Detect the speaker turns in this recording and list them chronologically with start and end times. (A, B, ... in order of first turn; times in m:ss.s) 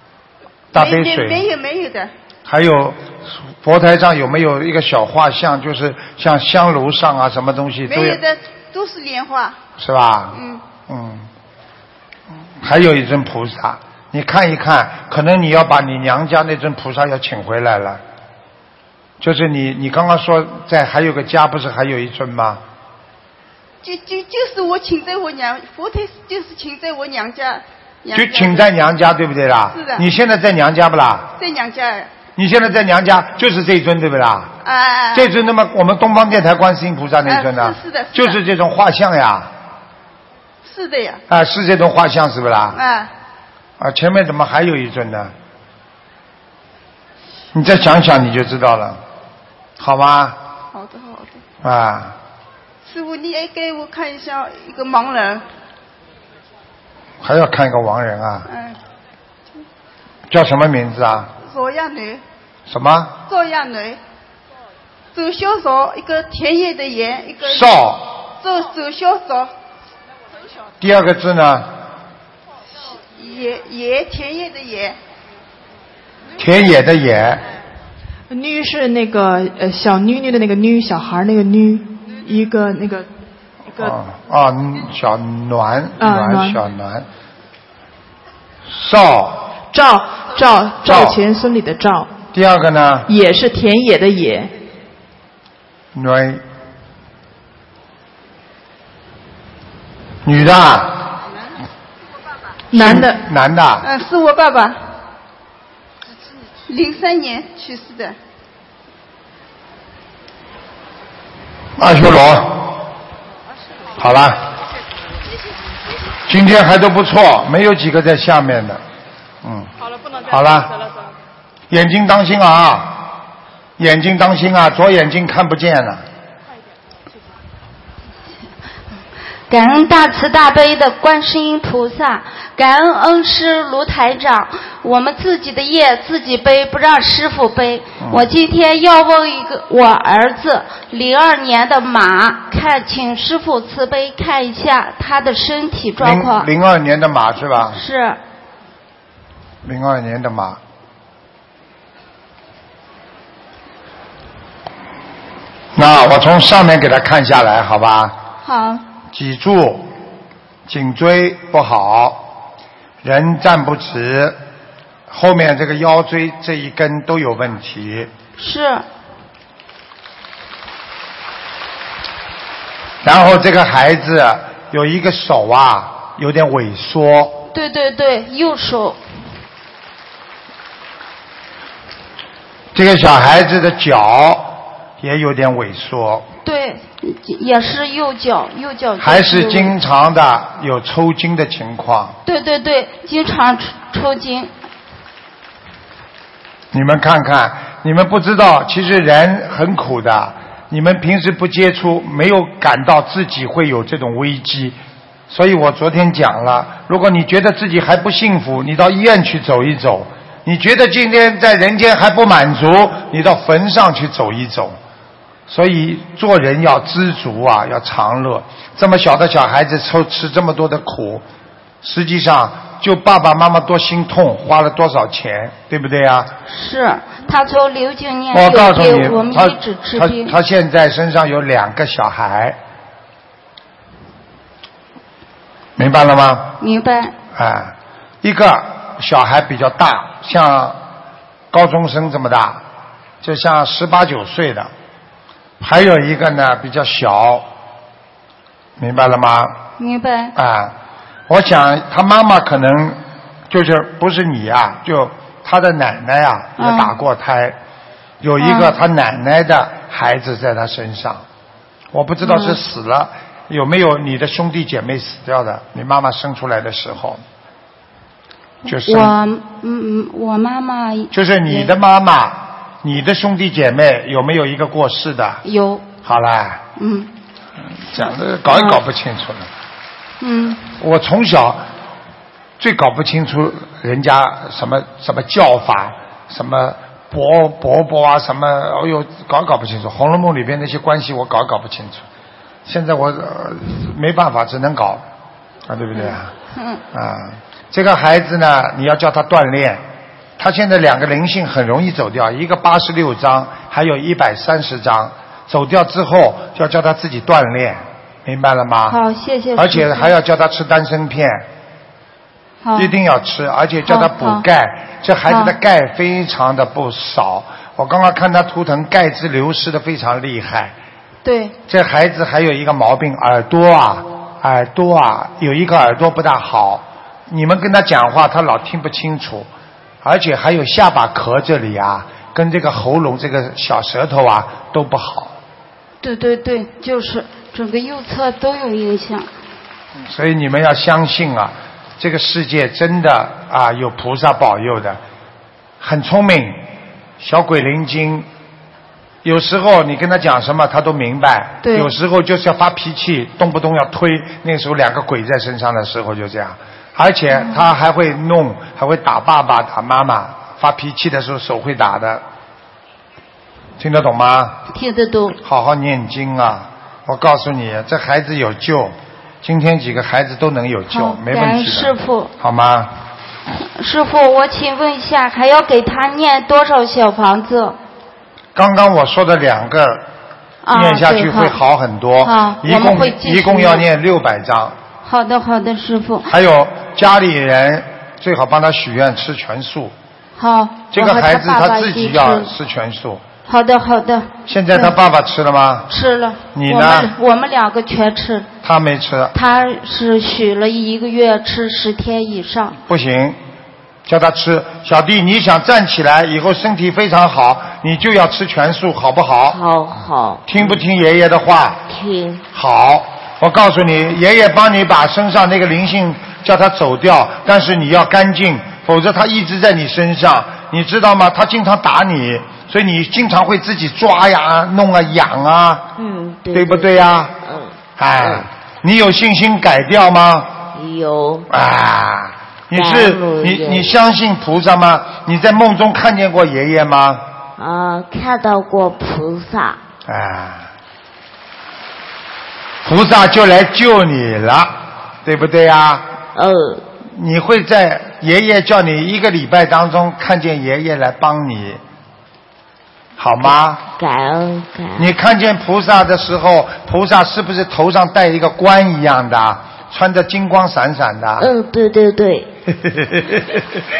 0:00.7-0:01.4 A
0:00.7-0:02.1 B
0:02.4-0:08.2 A
0:07.8-0:09.6 B
0:09.8-0:10.4 A
0:10.3-0:10.7 B
0:10.9-0:11.3 A
0:12.6-0:18.0 A
0:19.2-0:22.6 A
0:23.8-0:28.7 B
0:28.1-0:31.3 A
0:29.7-0:30.0 B
0:31.4-0:32.1 B
0:32.4-0:34.5 A
0:34.6-0:35.3 B
0:35.1-0:39.5 A
0:37.2-0:38.4 B
0:40.6-0:41.2 B
0:41.3-0:42.8 A
0:42.7-0:43.1 B
0:43.8-0:45.3 A
0:47.5-0:49.0 A
0:49.8-0:50.4 A
0:50.7-0:51.4 B
0:51.6-0:52.2 A
0:52.8-0:55.4 B
0:57.2-0:58.5 A
0:58.5-0:58.8 B
1:00.3-1:01.3 A
1:01.4-1:02.2 B
1:02.7-1:03.1 A
1:03.3-1:04.0 B
1:05.1-1:07.7 B
1:07.4-1:08.0 A
1:08.4-1:09.5 B
1:10.8-1:11.7 A
1:13.1-1:15.0 B
1:16.4-1:17.4 A
1:18.3-1:23.1 C
1:23.8-1:27.1 A
1:26.0-1:26.6 C
1:28.7-1:29.4 A
1:29.7-1:32.2 C
1:30.8-1:31.2 A
1:32.3-1:33.1 A
1:33.1-1:34.5 C
1:35.9-1:36.4 A
1:40.2-1:41.1 A
1:42.7-1:43.2 C
1:42.7-1:43.8 A
1:43.8-1:44.8 B
1:46.7-1:48.2 B
1:51.8-1:52.8 A
1:54.0-1:54.4 A
1:56.3-1:58.8 A
1:59.4-1:59.7 A
2:00.2-2:00.7 A
2:01.7-2:03.1 A
2:03.8-2:06.0 A
2:09.5-2:26.5 D
2:18.0-2:18.3 A
2:26.0-2:27.8 A
2:27.6-2:28.2 D
2:29.6-2:30.6 A
2:35.7-2:38.2 A
2:38.4-2:38.8 B
2:39.1-2:39.9 A
2:40.7-2:42.3 A
2:43.0-2:44.4 A
2:45.1-2:48.1 A
2:48.4-2:48.8 D
2:53.0-2:57.4 A
2:57.5-2:59.0 D
3:02.7-3:06.3 A
3:06.4-3:09.7 D
3:09.0-3:12.2 A
3:12.2-3:14.5 D
3:16.7-3:24.8 A
3:25.3-3:34.8 A
3:35.5-3:41.2 A
3:41.8-3:46.3 A
3:46.5-3:50.3 D
3:48.3-3:52.6 A
3:55.8-3:56.6 A
3:56.6-3:57.1 D
3:57.3-4:00.8 A
4:01.5-4:02.6 A
4:03.2-4:04.7 A
4:05.6-4:07.4 A
4:08.8-4:09.6 A
4:09.8-4:10.3 D
4:10.4-4:10.7 A
4:11.3-4:17.6 A
4:16.6-4:16.9 D
4:18.2-4:21.2 A
4:18.4-4:18.8 D
4:21.9-4:27.2 A
4:22.2-4:22.6 D
4:28.6-4:29.2 A
4:28.7-4:31.7 D
4:31.1-4:35.4 A
4:35.4-4:35.9 D
4:36.0-4:36.6 A
4:36.8-4:37.1 D
4:37.8-4:39.5 A
4:38.0-4:38.8 D
4:40.2-4:40.6 D
4:40.8-4:41.6 A
4:42.6-4:52.0 A
4:52.6-4:55.0 A
4:55.7-4:56.3 A
4:56.9-4:59.8 A
5:00.4-5:09.0 A
5:08.9-5:10.1 D
5:09.5-5:11.4 A
5:12.6-5:12.9 D
5:12.7-5:20.7 A
5:13.8-5:14.4 D
5:15.3-5:15.5 D
5:21.2-5:21.5 D
5:21.7-5:29.5 A
5:30.0-5:35.3 A
5:36.0-5:39.3 D
5:40.0-5:45.0 A
5:45.8-5:46.6 A
5:47.2-5:48.3 A
5:49.2-6:02.2 A
5:51.6-5:51.9 D
6:03.8-6:04.6 A
6:04.7-6:05.4 D
6:05.4-6:12.9 A
6:10.9-6:12.3 D
6:13.6-6:17.8 D
6:18.5-6:20.0 A
6:20.6-6:21.6 D
6:20.7-6:24.8 A
6:22.2-6:23.8 D
6:25.0-6:26.3 D
6:26.3-6:29.9 A
6:30.4-6:32.5 D
6:30.9-6:33.2 A
6:33.4-6:34.9 D
6:34.5-6:35.9 A
6:35.9-6:38.5 D
6:36.5-6:37.1 A
6:38.6-6:39.3 A
6:39.3-6:42.8 D
6:42.9-6:43.4 A
6:44.0-6:49.6 A
6:49.5-6:50.8 E
6:50.5-6:51.8 A
6:51.9-6:52.4 E
6:52.5-7:05.9 A
7:06.0-7:08.5 E
7:06.5-7:07.3 A
7:08.0-7:10.6 A
7:10.7-7:11.5 E
7:11.5-7:17.2 A
7:12.7-7:14.0 E
7:17.6-7:19.8 E
7:20.1-7:20.7 A
7:22.8-7:26.0 A
7:26.3-7:26.8 E
7:27.1-7:31.8 A
7:33.2-7:33.8 A
7:33.4-7:35.1 E
7:35.0-7:41.5 A
7:41.4-7:42.5 E
7:42.8-7:43.6 A